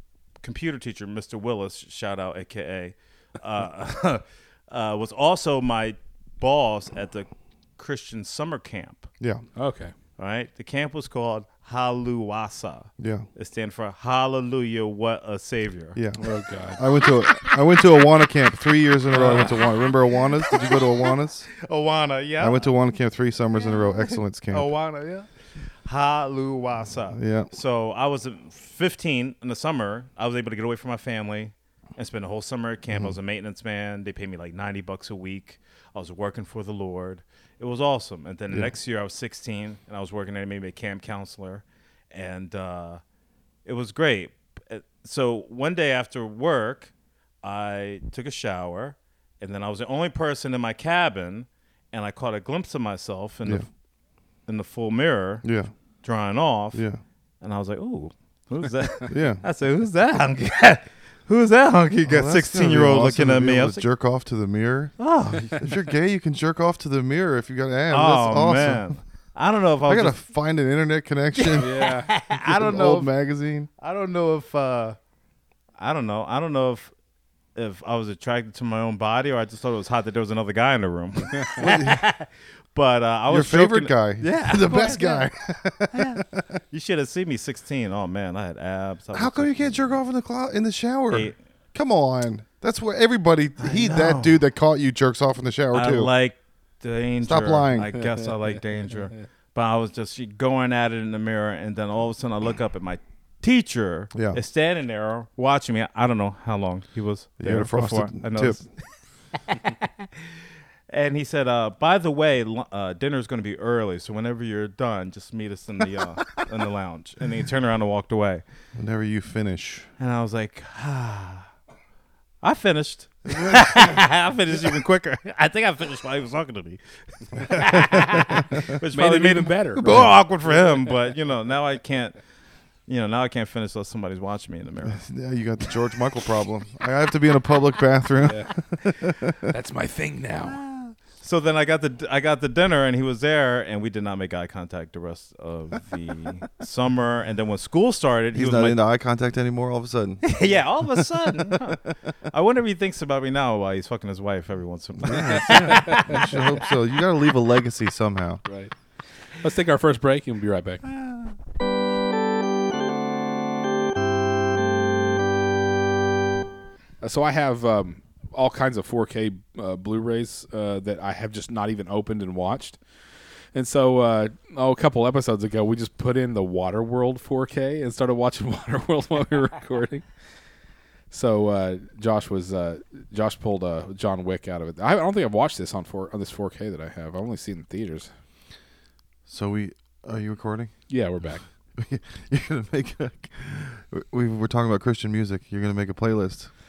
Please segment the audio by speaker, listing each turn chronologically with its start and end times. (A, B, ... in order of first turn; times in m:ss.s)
0:00.4-0:09.1 A
0:09.6-0:09.9 B
0:10.2-0:16.0 A
0:13.0-0:13.2 C
0:15.9-0:16.2 C
0:16.2-0:16.8 B
0:16.7-0:21.5 C
0:19.1-0:19.5 B
0:19.1-0:19.5 A
0:21.6-0:22.7 A
0:22.4-0:24.7 C
0:23.7-0:25.3 A
0:25.8-0:43.0 A
0:27.1-0:27.5 C
0:43.6-0:53.7 A
0:54.5-0:55.4 A
0:55.4-0:55.7 C
0:56.0-0:56.8 A
0:56.7-0:57.0 C
0:57.4-1:03.8 A
0:59.1-0:59.4 C
1:02.0-1:08.9 C
1:05.0-1:05.7 A
1:07.9-1:10.1 A
1:09.8-1:11.8 C
1:11.4-1:13.1 A
1:11.6-1:12.1 B
1:12.3-1:13.7 C
1:13.8-1:15.0 A
1:15.8-1:16.9 A
1:17.6-1:25.3 A
1:21.6-1:22.0 C
1:23.3-1:26.6 C
1:25.9-1:29.9 A
1:29.1-1:36.1 C
1:31.1-1:31.4 A
1:33.6-1:34.4 A
1:35.7-1:48.6 A
1:37.2-1:37.9 C
1:44.1-1:44.4 C
1:47.4-1:48.6 C
1:50.9-1:58.4 A
1:58.7-1:59.9 C
2:00.0-2:01.5 A
2:02.4-2:12.2 A
2:03.3-2:03.8 C
2:07.5-2:08.0 C
2:08.9-2:10.1 B
2:09.8-2:10.1 C
2:12.9-2:15.0 A
2:14.8-2:19.5 C
2:18.2-2:18.5 B
2:19.4-2:20.6 B
2:20.7-2:28.8 A
2:28.3-2:30.2 C
2:30.2-2:36.4 A
2:35.0-2:38.4 C
2:35.5-2:36.2 B
2:38.4-2:38.7 B
2:39.3-2:40.8 B
2:47.0-2:52.8 B
2:53.5-3:00.0 B
3:01.1-3:08.1 B
3:09.3-3:10.7 C
3:10.9-3:11.4 B
3:11.8-3:16.5 C